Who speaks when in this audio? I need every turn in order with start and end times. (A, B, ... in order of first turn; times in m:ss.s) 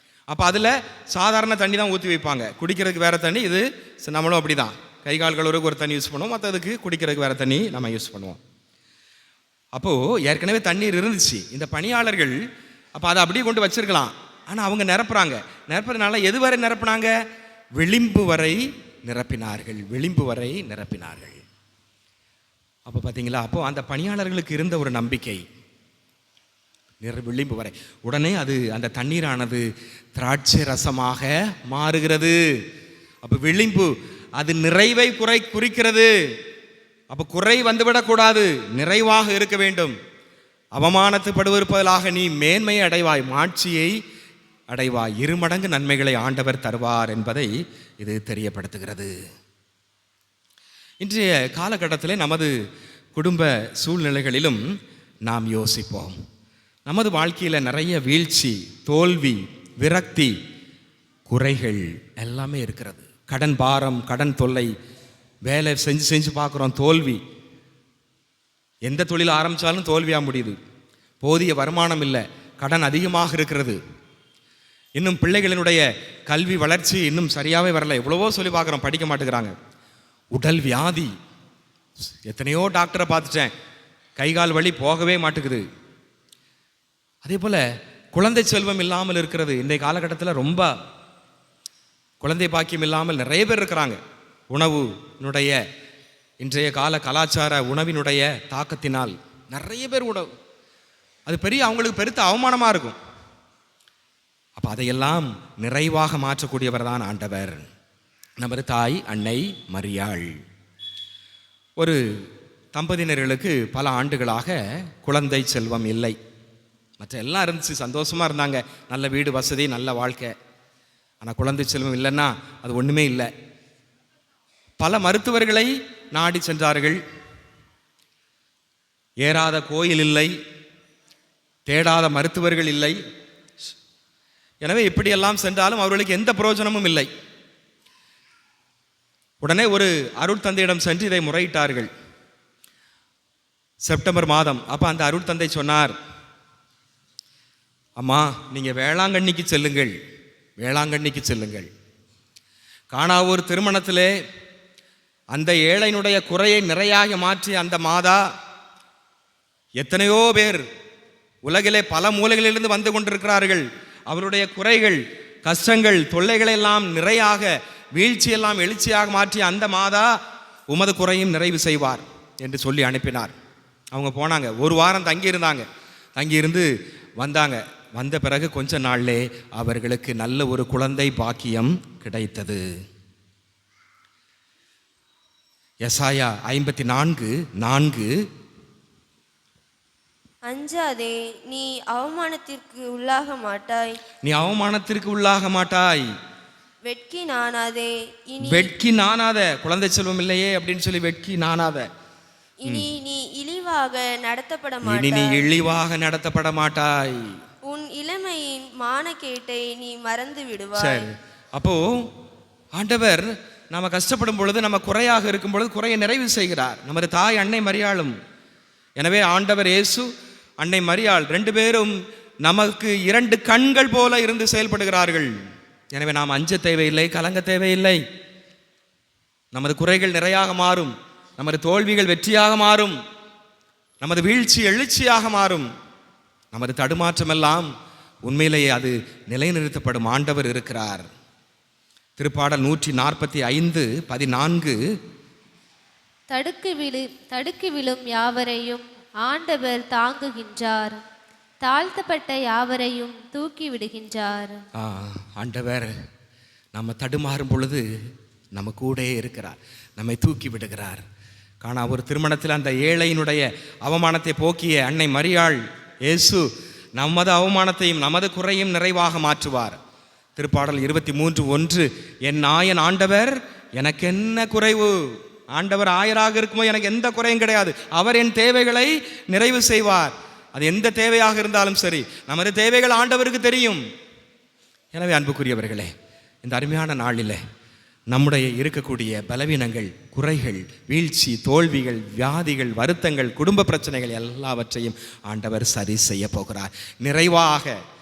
0:00.3-0:08.4 A
0:09.8-0:12.4 A
0:13.0-0:17.1 A
0:17.8-0:21.4 A
0:22.9-0:25.4 A
0:27.0-0:32.4 A
0:33.2-0:36.1 A
0:37.1-0:39.9 A
0:40.7-0:44.0 A
0:44.7-0:49.1 A
0:51.0-0:52.6 A
0:53.1-0:54.6 A
0:55.2-0:56.2 A
0:56.9-1:00.4 A
1:01.3-1:04.7 A
1:05.4-1:07.2 A
1:08.8-1:10.6 A
1:11.2-1:13.8 A
1:15.0-1:19.6 A
1:20.3-1:21.1 A
1:22.2-1:23.5 A
1:24.2-1:25.6 A
1:27.2-1:30.7 A
1:32.2-1:34.0 A
1:34.5-1:35.6 A
1:36.4-1:40.3 A
1:41.3-1:43.0 A
1:44.6-1:47.7 A
1:48.4-1:50.4 A
1:51.8-1:56.2 A
1:57.0-2:00.4 A
2:01.2-2:03.3 A
2:04.8-2:07.0 A
2:09.2-2:10.3 A
2:11.6-2:13.0 A
2:14.6-2:17.1 A
2:19.4-2:21.9 A
2:23.8-2:25.9 A
2:28.0-2:29.9 A
2:30.6-2:31.7 A
2:32.9-2:34.1 A
2:35.3-2:38.3 A
2:39.8-2:40.6 A
2:41.4-2:50.2 A
2:50.7-2:53.3 A
2:53.9-3:02.7 A
3:05.8-3:08.1 A
3:10.5-3:14.0 B
3:14.2-3:16.1 A
3:16.9-3:18.7 B
3:18.4-3:21.9 A
3:22.6-3:25.4 B
3:24.8-3:27.4 A
3:27.6-3:31.1 B
3:30.8-3:32.1 A
3:32.8-3:38.2 A
3:39.0-3:45.3 A
3:45.9-3:48.0 A
3:49.5-3:53.0 A
3:54.0-3:55.7 A
3:56.5-3:57.7 A
3:58.2-4:01.1 A
4:02.2-4:04.8 A
4:06.3-4:11.0 C
4:11.6-4:14.6 C
4:14.8-4:15.9 A
4:16.7-4:17.8 A
4:18.5-4:21.0 A
4:21.6-4:29.8 A
4:30.4-4:43.8 A
4:44.9-4:45.9 A
4:46.4-4:47.4 A
4:48.1-4:57.8 A